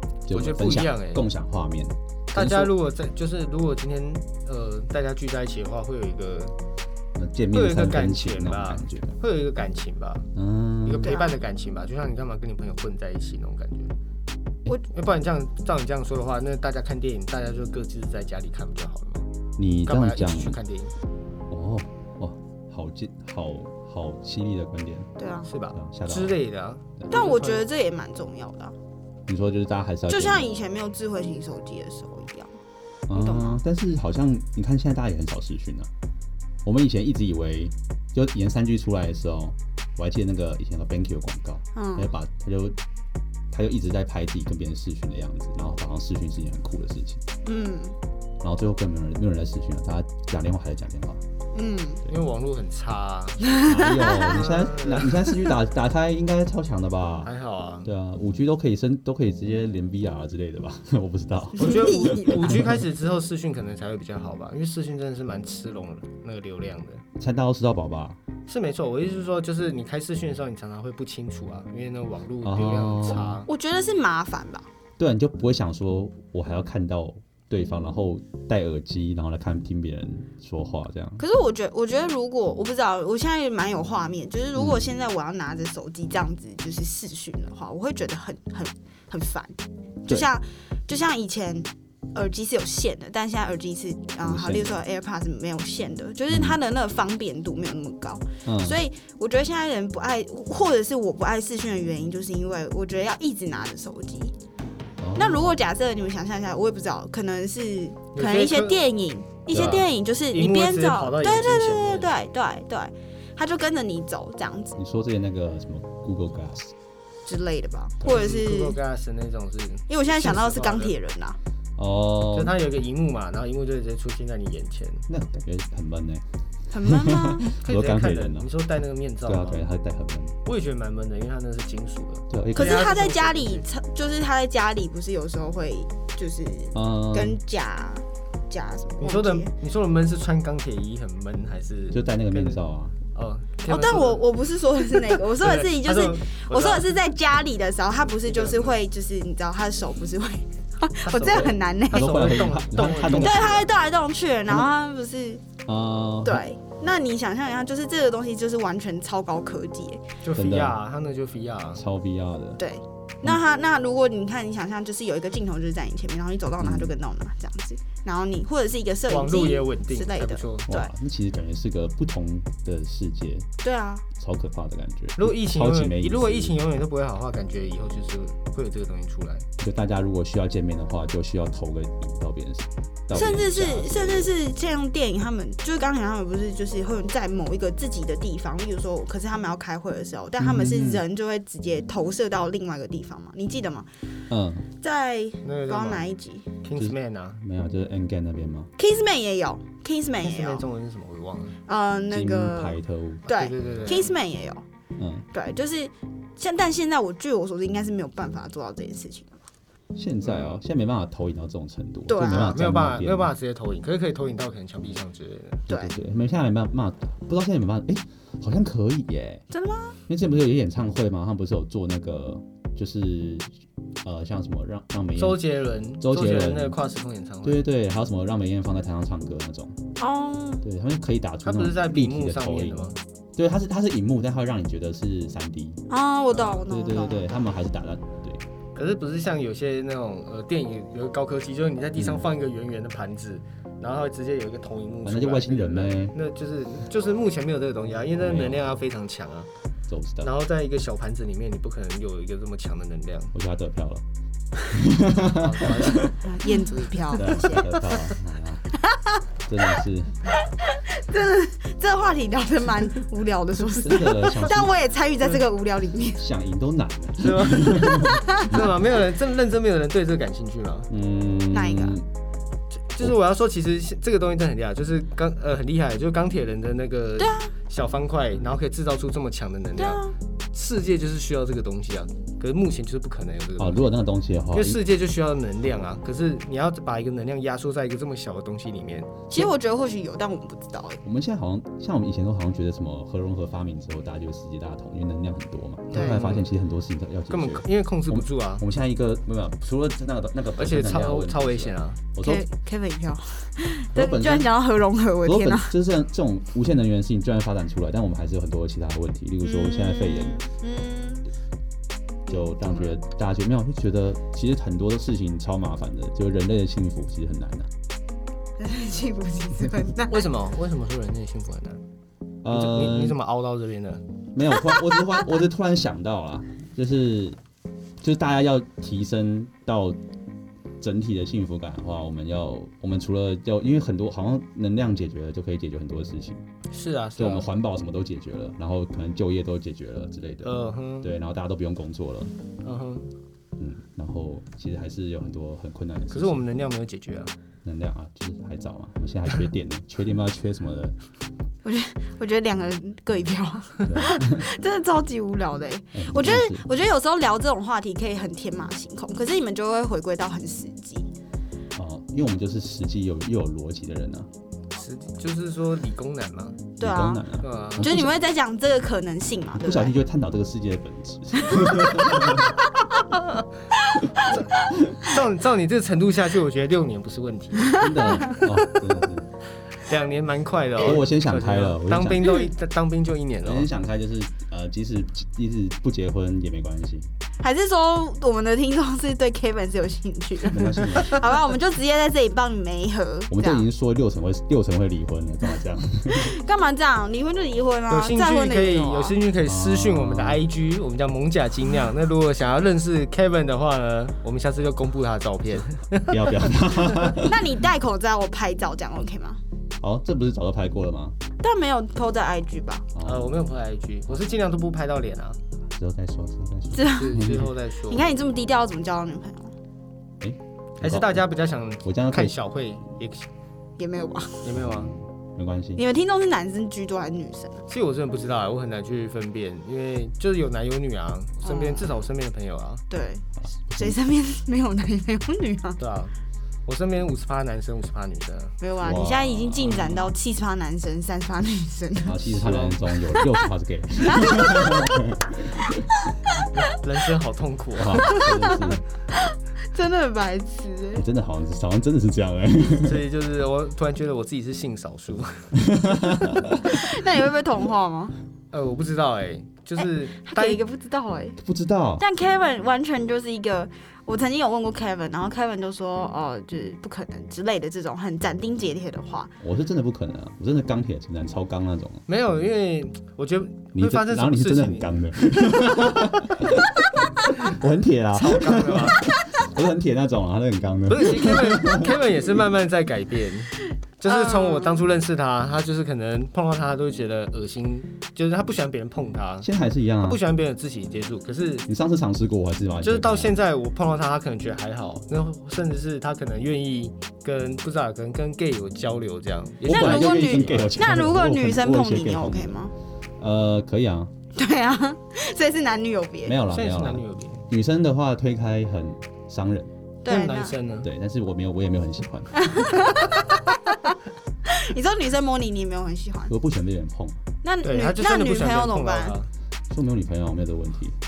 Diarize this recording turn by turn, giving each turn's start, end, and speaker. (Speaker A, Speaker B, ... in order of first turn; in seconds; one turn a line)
Speaker A: 0.3-2.7
Speaker B: 0.3-1.3
Speaker B: 2.3-6.6
Speaker A: 7.2-9.2
Speaker B: 7.5-10.3
Speaker A: 10.3-11.2
Speaker B: 10.8-13.9
Speaker C: 11.0-11.4
Speaker B: 14.9-19.3
Speaker A: 19.6-20.6
Speaker B: 19.9-20.9
Speaker A: 21.5-25.1
Speaker C: 25.2-25.5
Speaker B: 25.4-27.6
Speaker A: 25.8-26.4
Speaker C: 27.1-28.8
Speaker A: 29.3-30.5
Speaker C: 30.1-32.5
Speaker A: 33.1-35.9
Speaker C: 33.1-33.6
Speaker A: 36.6-42.8
Speaker C: 41.8-42.1
Speaker A: 43.5-47.2
Speaker C: 47.5-48.0
Speaker A: 48.4-51.2
Speaker C: 51.5-52.0
Speaker B: 52.1-55.1
Speaker C: 53.5-54.5
Speaker A: 53.6-57.3
Speaker B: 57.2-57.9
Speaker A: 57.8-62.8
Speaker B: 61.6-67.0
Speaker C: 61.6-62.6
Speaker A: 67.2-68.2
Speaker B: 68.5-73.5
Speaker A: 72.4-73.4
Speaker C: 73.5-74.7
Speaker A: 75.0-81.2
Speaker C: 81.2-104.3
Speaker A: 84.5-84.9
Speaker A: 94.2-94.8
Speaker A: 96.3-96.6
Speaker A: 98.5-98.8
Speaker A: 105.0-105.6
Speaker C: 105.2-114.8
Speaker B: 108.1-108.8
Speaker A: 109.5-109.8
Speaker B: 109.5-112.1
Speaker A: 114.8-116.7
Speaker C: 117.2-118.8
Speaker B: 118.0-120.9
Speaker C: 119.9-121.4
Speaker A: 121.8-122.5
Speaker B: 122.3-125.0
Speaker A: 125.1-128.5
Speaker C: 126.7-127.5
Speaker B: 127.6-129.6
Speaker A: 129.3-130.4
Speaker B: 130.4-133.7
Speaker A: 132.3-132.9
Speaker C: 132.6-139.5
Speaker A: 136.7-137.4
Speaker B: 139.0-142.6
Speaker A: 141.9-143.0
Speaker B: 143.1-144.3
Speaker C: 143.7-152.4
Speaker B: 145.1-146.9
Speaker B: 148.2-148.7
Speaker B: 151.0-153.7
Speaker A: 151.9-153.7
Speaker C: 153.0-155.4
Speaker A: 155.7-156.4
Speaker C: 156.2-160.0
Speaker B: 160.2-161.8
Speaker A: 160.3-160.8
Speaker A: 161.8-162.6
Speaker C: 162.6-170.9
Speaker A: 166.6-167.0
Speaker B: 169.1-170.7
Speaker A: 170.7-173.5
Speaker C: 173.6-174.1
Speaker A: 174.1-176.6
Speaker B: 175.2-179.5
Speaker A: 179.6-184.3
Speaker C: 183.1-193.9
Speaker A: 190.4-191.1
Speaker A: 194.3-194.7
Speaker C: 194.8-196.5
Speaker B: 195.4-196.1
Speaker B: 196.6-197.4
Speaker A: 196.8-198.7
Speaker C: 198.8-200.7
Speaker B: 200.2-201.6
Speaker C: 201.7-204.6
Speaker A: 202.1-203.3
Speaker B: 203.3-204.1
Speaker A: 205.0-205.3
Speaker C: 205.3-209.3
Speaker A: 209.9-213.3
Speaker B: 210.2-210.6
Speaker C: 212.1-212.6
Speaker B: 212.3-215.7
Speaker C: 215.7-215.9
Speaker A: 215.7-219.4
Speaker C: 219.5-220.0
Speaker A: 220.1-225.4
Speaker B: 225.2-227.6
Speaker A: 226.0-226.8
Speaker A: 227.4-229.8
Speaker C: 230.0-230.6
Speaker A: 230.6-235.8
Speaker B: 231.4-233.0
Speaker C: 235.9-237.5
Speaker B: 236.3-236.6
Speaker A: 236.6-238.4
Speaker B: 238.8-249.5
Speaker A: 242.0-242.3
Speaker A: 245.0-246.2
Speaker A: 248.2-248.7
Speaker A: 249.9-250.3
Speaker B: 250.2-253.3
Speaker A: 253.3-254.0
Speaker A: 254.6-256.1
Speaker B: 255.3-256.2
Speaker C: 256.1-258.1
Speaker A: 257.1-258.7
Speaker C: 258.8-259.2
Speaker A: 259.5-260.3
Speaker C: 260.4-266.2
Speaker A: 263.8-264.8
Speaker A: 266.2-268.8
Speaker B: 267.2-270.9
Speaker C: 268.1-268.6
Speaker A: 270.9-272.1
Speaker C: 271.5-272.0
Speaker B: 272.8-283.9
Speaker C: 277.2-277.5
Speaker C: 279.8-280.1
Speaker A: 283.6-284.8
Speaker B: 284.5-289.5
Speaker C: 289.3-291.0
Speaker A: 291.0-302.4
Speaker B: 295.9-296.5
Speaker C: 295.9-296.2
Speaker B: 297.3-298.6
Speaker B: 300.6-302.0
Speaker C: 302.2-305.7
Speaker A: 303.9-304.5
Speaker A: 305.2-310.4
Speaker C: 309.4-311.3
Speaker C: 312.3-313.0
Speaker A: 312.3-317.7
Speaker C: 318.6-320.3
Speaker B: 320.1-321.8
Speaker A: 322.4-323.2
Speaker B: 322.5-324.0
Speaker A: 324.3-327.4
Speaker C: 324.5-325.2
Speaker A: 328.0-330.0
Speaker A: 330.8-336.4
Speaker B: 336.7-337.5
Speaker A: 337.2-342.3
Speaker B: 340.4-341.1
Speaker B: 342.6-343.1
Speaker A: 343.6-346.4
Speaker B: 346.1-347.3
Speaker A: 347.6-350.9
Speaker C: 351.6-361.1
Speaker A: 353.8-354.5
Speaker A: 355.9-356.6
Speaker A: 361.8-364.3
Speaker B: 364.8-366.6
Speaker C: 366.8-367.3
Speaker A: 366.8-368.1
Speaker B: 367.4-367.9
Speaker C: 367.8-369.9
Speaker A: 369.6-372.5
Speaker C: 371.6-372.4
Speaker C: 373.8-374.7
Speaker B: 374.3-377.8
Speaker C: 377.8-378.5
Speaker A: 377.8-379.3
Speaker B: 379.8-383.7
Speaker A: 380.8-382.5
Speaker A: 383.4-387.1
Speaker C: 387.4-393.7
Speaker A: 390.5-391.4
Speaker A: 393.3-396.4
Speaker C: 396.1-399.1
Speaker B: 397.9-407.0
Speaker A: 399.4-400.4
Speaker A: 406.1-407.5
Speaker C: 407.1-409.4
Speaker A: 409.8-411.2
Speaker C: 411.4-412.9
Speaker A: 412.9-413.4
Speaker B: 413.0-415.4
Speaker A: 415.7-417.5
Speaker C: 416.7-417.3
Speaker B: 416.9-418.1
Speaker C: 417.8-419.5
Speaker A: 420.2-421.2
Speaker B: 420.8-423.3
Speaker A: 421.8-422.4
Speaker C: 423.8-424.4
Speaker B: 424.4-424.9
Speaker A: 424.6-425.8
Speaker C: 425.8-427.6
Speaker B: 427.7-432.8
Speaker C: 431.4-432.0
Speaker C: 432.9-435.8
Speaker A: 433.4-434.0
Speaker B: 435.8-436.1
Speaker B: 436.6-438.6
Speaker C: 438.6-442.4
Speaker A: 438.8-440.1
Speaker A: 442.0-445.8
Speaker B: 442.2-442.8
Speaker C: 443.1-443.5
Speaker C: 444.0-445.0
Speaker B: 446.5-448.2
Speaker A: 447.8-448.8
Speaker C: 448.0-451.1
Speaker A: 450.9-453.0
Speaker B: 452.8-455.5
Speaker A: 455.6-456.6
Speaker C: 456.5-458.1
Speaker B: 458.5-460.6
Speaker C: 459.8-461.4
Speaker A: 461.4-462.1
Speaker C: 462.0-469.3
Speaker A: 469.4-472.0
Speaker B: 472.1-474.9
Speaker A: 473.8-482.0
Speaker B: 478.1-479.0
Speaker B: 480.9-489.5
Speaker C: 484.0-484.9
Speaker A: 489.4-490.2
Speaker B: 490.0-491.7
Speaker A: 491.7-493.4
Speaker B: 492.8-500.8
Speaker A: 499.6-502.6
Speaker C: 499.7-502.7
Speaker A: 503.2-504.1
Speaker C: 504.4-506.4
Speaker A: 506.2-509.7
Speaker B: 506.5-507.5
Speaker C: 510.0-510.6
Speaker B: 510.1-510.9
Speaker A: 510.8-512.8
Speaker C: 512.4-516.3
Speaker A: 516.3-517.2
Speaker C: 517.4-519.1
Speaker B: 517.6-519.3
Speaker A: 519.7-521.0